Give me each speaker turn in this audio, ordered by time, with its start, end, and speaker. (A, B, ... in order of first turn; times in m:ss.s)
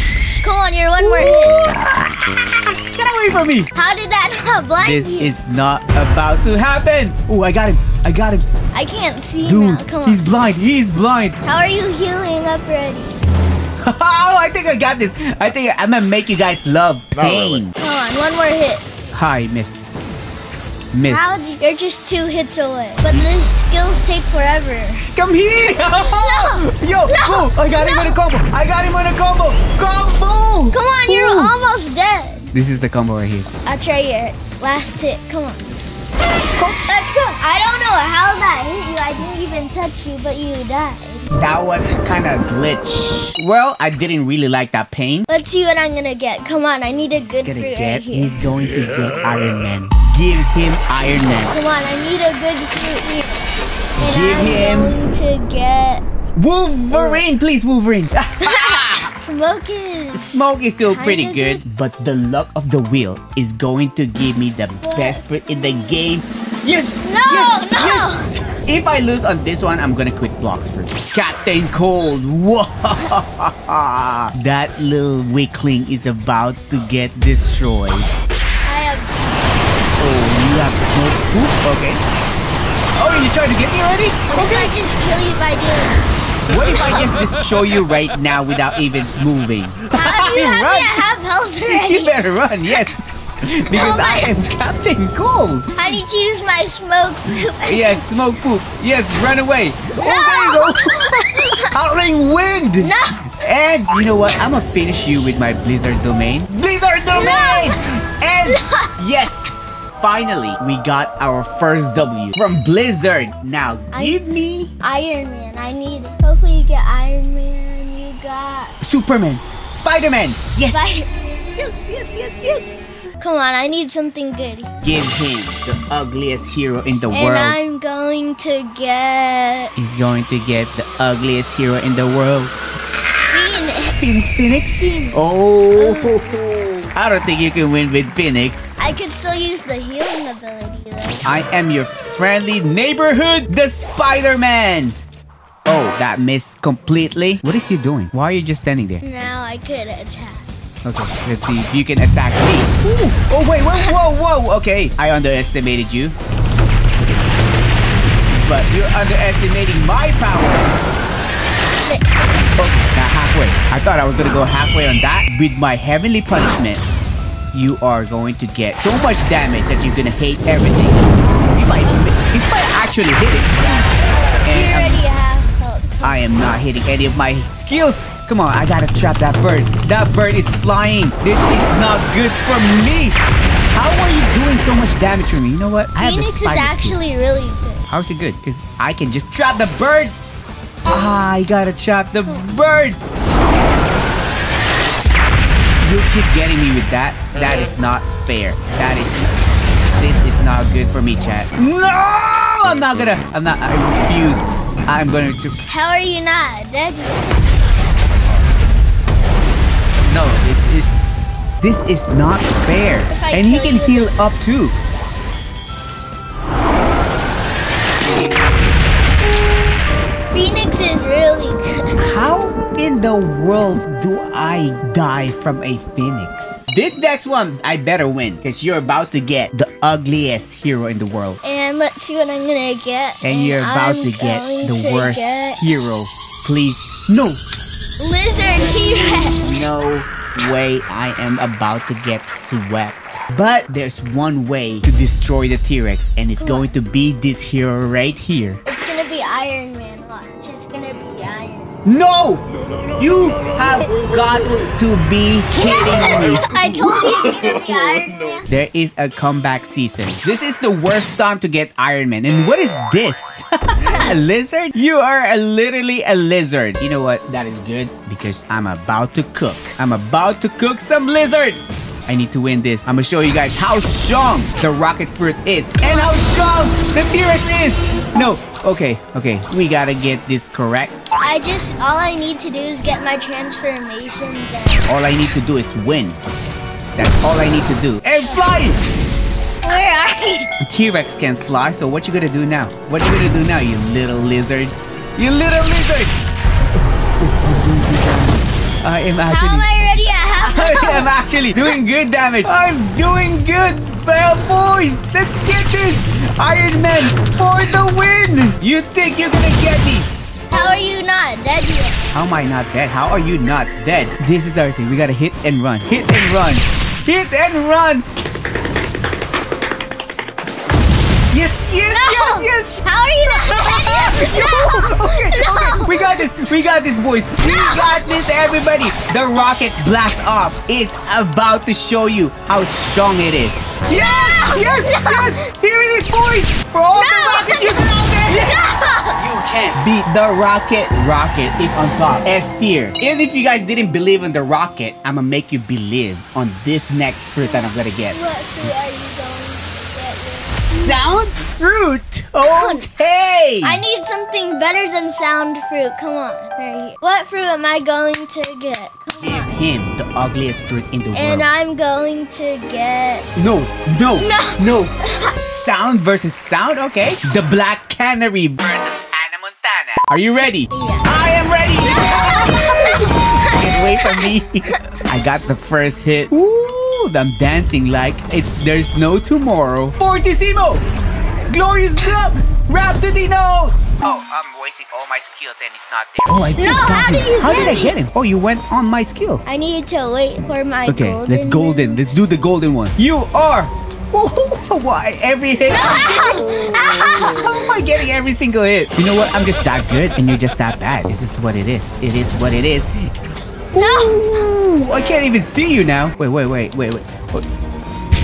0:00.4-0:01.7 A
0:01.0-0:03.7 B
0:03.7-0:05.3 A
0:04.8-0:08.5 B
0:08.7-0:10.2 A
0:09.4-0:11.4 B
0:11.4-0:13.2 A
0:13.8-0:17.7 B
0:17.8-0:18.9 A
0:19.1-0:19.9 B
0:20.9-0:21.3 B
0:21.1-0:28.2 A
0:25.1-0:31.5 B
0:30.7-0:32.5 A
0:32.5-0:33.5 B
0:33.6-0:35.7 A
0:36.6-0:36.8 B
0:36.8-0:41.3 A
0:41.3-0:45.3 B
0:45.3-0:48.3 A
0:47.2-0:51.5 B
0:51.5-0:56.0 A
0:54.0-0:54.9 B
0:56.4-0:59.1 B
0:57.0-0:57.2 A
0:58.4-1:01.6 A
1:00.1-1:18.1 B
1:04.8-1:05.2 A
1:06.7-1:08.3 A
1:18.6-1:19.9 A
1:20.0-1:22.0 B
1:23.0-1:24.7 B
1:24.3-1:26.0 A
1:26.5-1:31.0 B
1:29.9-1:32.9 A
1:31.6-1:36.0 B
1:33.7-1:34.4 A
1:35.8-1:38.1 A
1:37.6-1:54.7 B
1:40.0-1:41.7 A
1:42.8-1:43.3 A
1:47.1-1:47.9 A
1:48.4-1:48.9 A
1:53.9-1:54.2 A
1:54.8-1:58.8 A
1:58.8-2:00.8 B
2:00.7-2:01.1 A
2:01.5-2:03.1 B
2:03.2-2:04.7 A
2:04.8-2:07.6 B
2:07.1-2:10.1 A
2:09.8-2:12.5 B
2:13.3-2:14.0 A
2:14.0-2:18.8 B
2:14.8-2:15.2 A
2:15.8-2:16.4 A
2:18.8-2:21.2 A
2:21.2-2:25.0 B
2:25.7-2:29.0 B
2:29.0-2:30.5 A
2:30.8-2:36.2 B
2:38.3-2:40.8 B
2:41.8-2:42.5 A
2:42.6-2:46.8 B
2:47.5-2:53.6 B
2:54.4-2:55.0 B
2:54.5-2:56.2 A
2:56.0-3:03.2 B
3:03.7-3:07.0 B
3:06.0-3:07.9 A
3:07.9-3:10.1 B
3:10.9-3:13.0 B
3:15.8-3:19.4 B
3:20.0-3:25.6 B
3:25.7-3:27.6 A
3:30.0-3:31.0 B
3:31.6-3:34.7 B
3:33.1-3:34.2 A
3:40.3-3:41.9 A
3:42.0-3:51.4 B
3:51.4-3:55.6 A
3:53.2-3:57.4 B
3:58.0-3:59.5 A
3:59.4-4:08.6 B
4:06.4-4:06.7 A
4:08.6-4:11.8 A
4:11.8-4:12.4 B
4:13.0-4:16.4 B
4:15.5-4:18.5 A
4:18.5-4:40.9 B
4:23.8-4:24.2 A
4:35.8-4:36.2 A
4:41.2-4:44.9 A
4:44.8-4:46.2 B
4:47.0-4:48.8 B
4:48.2-4:48.5 A
4:49.6-4:50.5 A
4:50.6-4:56.1 B
4:57.2-4:59.7 B
4:59.3-5:01.8 A
5:00.4-5:10.1 B
5:10.5-5:12.0 A
5:12.1-5:18.0 B
5:21.3-5:38.6 B
5:21.9-5:26.3 A
5:27.4-5:28.1 A
5:33.9-5:35.4 A
5:36.9-5:39.2 A
5:39.2-5:48.7 B
5:47.4-5:50.6 A
5:50.7-5:53.8 B
5:52.4-5:52.9 A
5:53.6-5:59.6 A
5:59.2-6:01.5 B
6:01.1-6:03.3 A
6:03.3-6:20.8 B
6:04.2-6:05.4 A
6:10.7-6:11.1 A
6:11.8-6:14.8 A
6:21.5-6:29.4 B
6:26.6-6:27.9 A
6:29.4-6:32.2 A
6:30.9-6:43.1 B
6:35.6-6:37.8 A
6:43.7-6:47.4 B
6:43.7-6:44.5 A